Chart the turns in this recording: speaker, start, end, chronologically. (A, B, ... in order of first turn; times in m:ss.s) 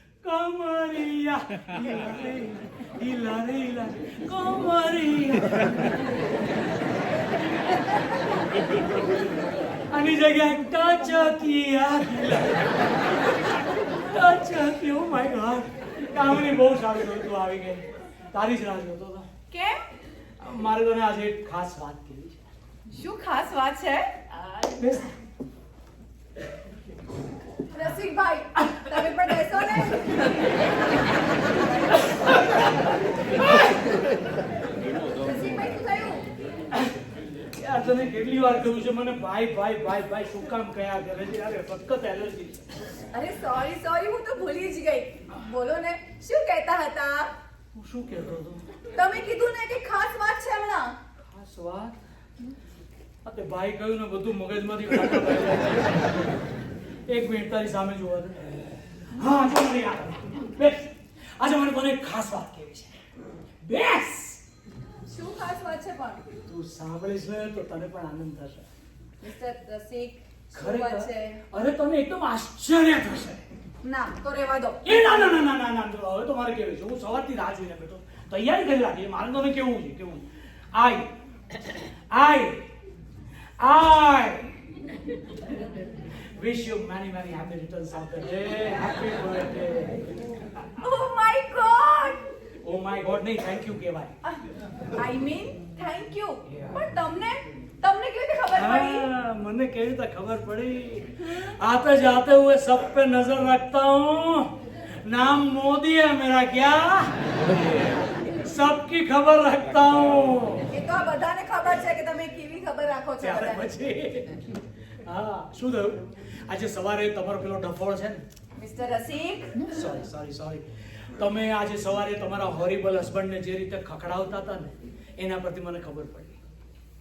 0:00.2-0:05.6 A
0:09.9-0:12.6 A
0:14.0-0:17.8 A
0:18.3-0:19.3 A
0:19.5-0:19.8 B
0:20.4-0:22.4 A
0:22.9-0:24.1 B
0:24.8-0:25.1 A
0:27.7-0:30.3 B
0:32.3-0:32.7 A
0:33.4-0:33.8 A
0:35.1-0:36.2 B
0:37.6-0:42.6 A
0:43.1-0:47.3 B
0:47.7-0:48.6 A
0:48.9-0:50.9 B
0:51.2-0:52.0 A
0:53.2-0:56.3 A
0:57.1-0:58.4 A
0:59.2-1:02.9 A
1:03.6-1:04.4 A
1:05.0-1:06.2 B
1:06.5-1:08.6 A
1:09.2-1:11.4 B
1:10.5-1:13.4 A
1:13.8-1:15.0 B
1:14.8-1:20.2 A
1:20.8-1:21.1 A
1:22.1-1:22.6 A
1:23.6-1:24.5 A
1:26.4-1:30.0 A
1:30.8-1:32.2 B
1:32.6-1:34.1 A
1:34.9-1:39.1 B
1:36.5-1:36.8 A
1:38.5-1:44.5 A
1:45.0-1:47.1 A
1:48.4-1:50.6 A
1:50.7-1:53.6 B
1:53.2-1:54.4 A
1:55.0-1:58.2 A
1:58.6-1:59.6 B
1:59.7-2:00.6 A
2:01.2-2:06.4 A